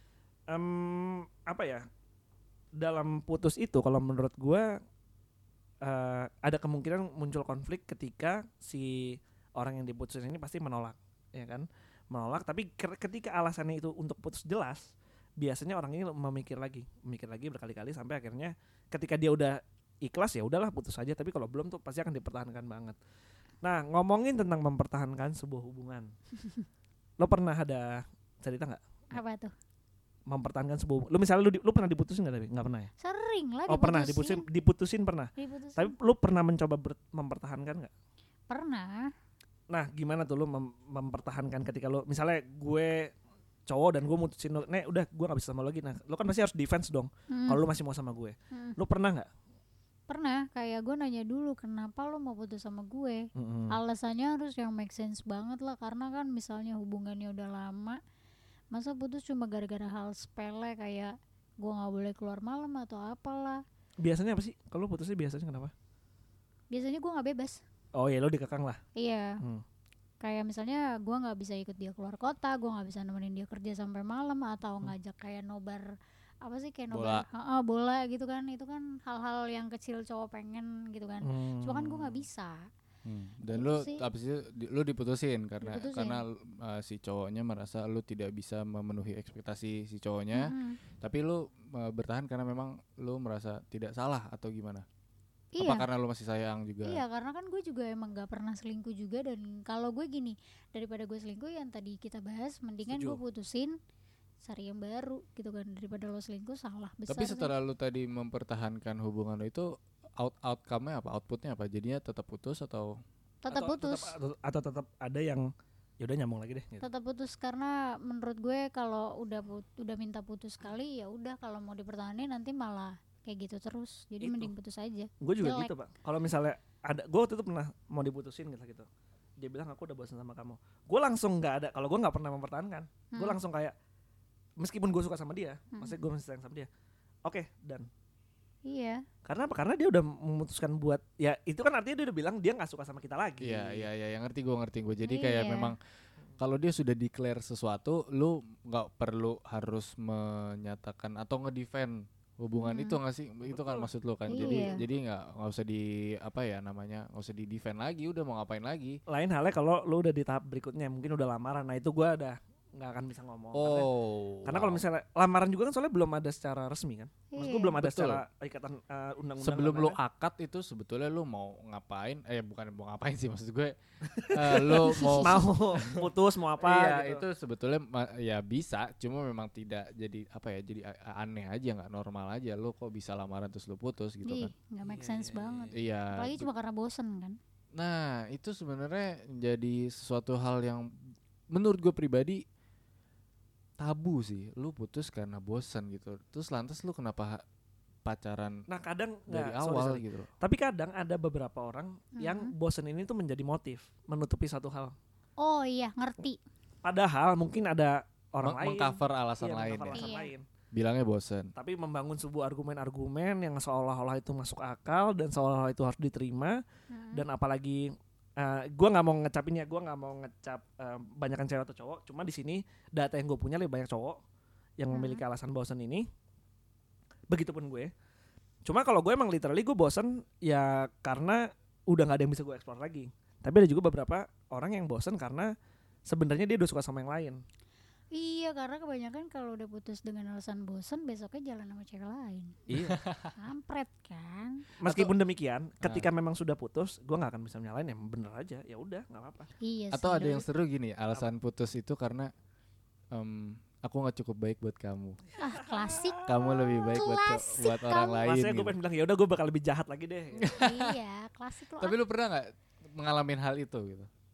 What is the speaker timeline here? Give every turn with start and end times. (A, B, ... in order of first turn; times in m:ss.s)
0:00.5-0:01.8 A
0:02.8-0:04.7 A
0:05.8-0:23.0 A
0:23.6-0:26.1 A
0:27.2-0:29.2 A
0:29.1-0:29.5 B
0:30.3-0:32.9 A
0:33.0-0:34.4 B
0:33.7-0:37.9 A
0:35.4-0:35.9 B
0:38.5-0:39.1 B
0:39.7-0:43.1 A
0:43.7-0:49.3 A
0:47.3-0:47.6 B
0:48.5-0:48.8 B
0:50.1-0:58.0 B
0:53.3-0:53.8 A
0:58.7-1:03.6 B
1:04.0-1:05.7 A
1:06.7-1:07.6 B
1:07.9-1:08.8 A
1:09.0-1:09.3 B
1:10.2-1:15.9 B
1:16.4-1:22.7 B
1:16.9-1:17.2 C
1:21.2-1:22.2 A
1:23.0-1:30.5 C
1:23.5-1:24.1 B
1:25.6-1:26.2 B
1:30.3-1:30.8 B
1:31.0-1:34.8 C
1:35.5-1:35.9 B
1:35.6-1:37.0 C
1:36.8-1:43.7 B
1:42.9-1:43.2 A
1:44.4-1:47.5 B
1:47.1-1:49.7 C
1:50.2-1:52.9 C
1:53.4-1:54.1 B
1:53.5-1:55.4 A
1:56.0-1:56.9 A
1:56.8-2:05.7 B
2:04.2-2:04.5 A
2:05.2-2:08.9 A
2:09.4-2:13.7 A
2:13.1-2:13.4 B
2:14.6-2:16.7 A
2:15.7-2:16.0 B
2:17.2-2:17.9 A
2:18.6-2:19.0 B
2:19.2-2:23.9 A
2:23.4-2:25.8 C
2:25.0-2:25.7 B
2:26.4-2:39.0 C
2:32.6-2:33.0 B
2:33.4-2:34.8 A
2:34.3-2:34.8 B
2:39.1-2:43.9 A
2:43.5-2:44.8 C
2:44.4-2:50.0 A
2:47.3-2:47.8 B
2:47.8-2:48.2 C
2:49.4-2:53.8 C
2:54.1-2:57.2 A
2:54.3-2:56.0 C
2:54.8-2:55.5 B
2:56.6-3:04.5 C
3:04.2-3:07.4 B
3:04.8-3:05.7 A
3:05.7-3:06.5 C
3:07.7-3:10.9 C
3:11.5-3:12.4 C
3:13.8-3:17.4 C
3:18.0-3:18.6 C
3:18.7-3:24.9 A
3:19.3-3:20.3 C
3:22.2-3:22.5 B
3:25.4-3:26.4 B
3:26.8-3:30.4 A
3:28.4-3:30.1 C
3:29.9-3:30.3 B
3:30.7-3:31.5 C
3:31.5-3:36.6 A
3:36.9-3:37.2 B
3:37.1-3:44.2 A
3:44.8-3:46.0 A
3:44.9-3:45.2 B
3:47.3-3:47.9 A
3:48.6-3:55.5 A
3:56.1-3:57.4 A
3:58.1-4:02.7 B
4:02.7-4:03.3 C
4:03.4-4:04.6 B
4:04.8-4:09.5 A
4:04.8-4:05.1 C
4:05.8-4:06.1 C
4:09.6-4:10.4 B
4:09.9-4:12.3 C
4:13.1-4:15.2 C
4:15.4-4:18.2 B
4:15.7-4:16.1 A
4:16.2-4:18.7 C
4:18.2-4:20.4 A
4:20.4-4:21.0 C
4:20.4-4:22.0 B
4:21.8-4:24.1 C